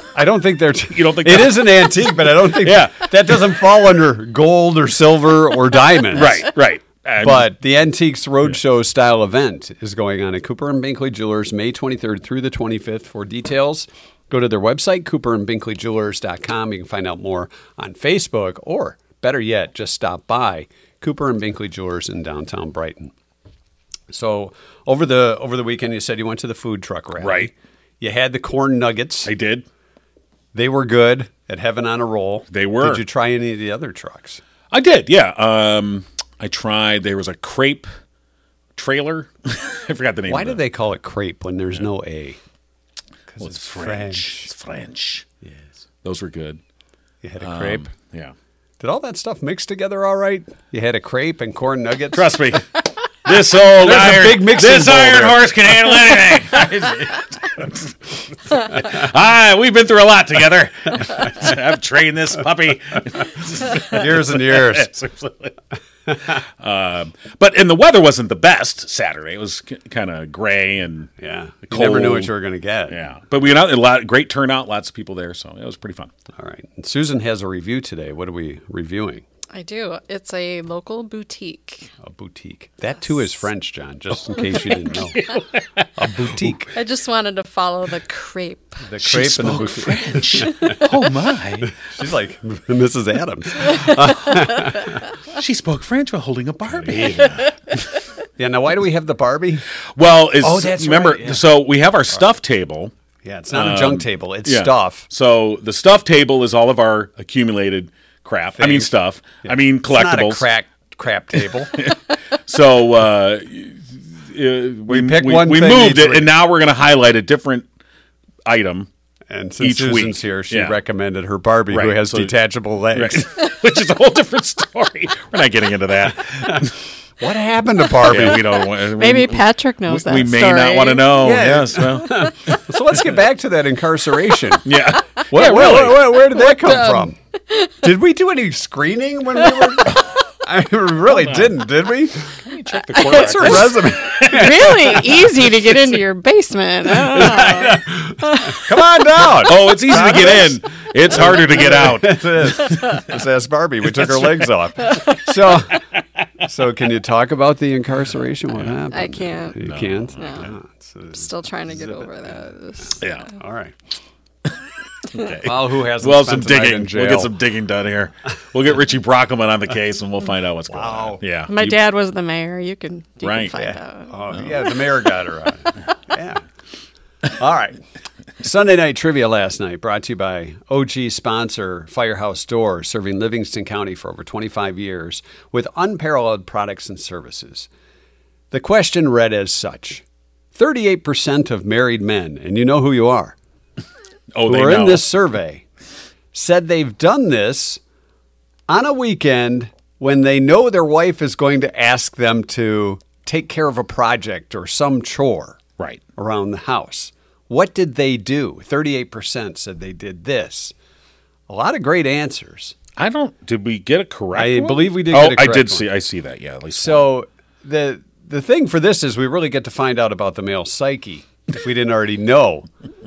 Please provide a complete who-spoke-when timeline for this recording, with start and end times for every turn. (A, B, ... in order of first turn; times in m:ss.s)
0:00.1-0:06.5 A
0:01.0-0:03.4 B
0:06.1-0:07.5 B
0:07.2-0:23.1 A
0:24.1-0:29.3 A
0:27.2-0:27.5 B
0:29.2-0:29.6 B
0:30.5-0:34.4 A
0:32.5-0:33.0 B
0:34.7-0:37.9 B
0:38.8-0:40.6 B
0:40.3-0:42.4 A
0:43.3-0:44.5 A
0:43.4-0:45.3 B
0:45.4-0:45.7 A
0:46.0-0:46.6 B
0:47.2-0:47.9 A
0:47.4-0:48.3 B
0:48.8-0:52.2 A
0:52.1-1:05.6 B
0:53.8-0:55.4 A
1:03.9-1:04.9 A
1:06.3-1:11.1 B
1:11.2-1:13.0 A
1:11.7-1:12.3 B
1:12.9-1:16.1 B
1:16.4-1:19.2 A
1:19.5-1:21.9 C
1:22.0-1:25.2 A
1:24.7-1:26.6 B
1:26.0-1:26.8 A
1:26.8-1:28.8 C
1:28.8-1:30.8 A
1:29.0-1:31.7 B
1:31.6-1:35.0 A
1:35.3-1:37.8 B
1:38.4-1:39.7 A
1:40.0-1:42.9 B
1:40.4-1:41.4 A
1:43.2-1:45.1 A
1:43.5-1:50.4 B
1:48.6-1:48.9 A
1:49.4-1:51.9 A
1:51.7-1:57.7 B
1:54.9-1:56.3 A
1:58.5-1:58.9 B
1:59.3-2:03.3 A
1:59.6-2:00.8 B
2:01.7-2:02.3 B
2:02.9-2:06.8 B
2:07.2-2:08.4 A
2:08.0-2:12.6 B
2:08.4-2:11.4 C
2:11.2-2:14.7 A
2:14.6-2:16.0 B
2:15.3-2:17.2 A
2:16.4-2:17.7 C
2:17.8-2:22.4 A
2:21.1-2:21.6 B
2:22.4-2:25.0 B
2:23.0-2:23.6 C
2:23.1-2:24.9 A
2:24.2-2:28.6 C
2:27.1-2:35.8 A
2:29.4-2:33.0 B
2:34.0-2:34.5 B
2:36.4-2:41.3 A
2:38.9-2:40.5 C
2:39.6-2:40.5 B
2:41.1-2:43.1 C
2:43.0-2:43.3 B
2:43.4-2:43.8 A
2:45.1-2:51.8 B
2:45.4-2:47.3 A
2:50.7-2:51.2 A
2:51.5-2:54.1 C
2:53.2-2:53.6 B
2:53.6-2:56.4 A
2:57.3-2:57.8 A
2:58.4-3:07.7 A
3:08.5-3:13.4 A
3:14.3-3:15.1 B
3:14.4-3:15.6 A
3:16.3-3:17.8 A
3:18.7-3:25.6 A
3:26.2-3:30.7 A
3:31.5-3:32.8 A
3:33.0-3:37.1 B
3:34.4-3:35.9 A
3:36.7-3:42.7 A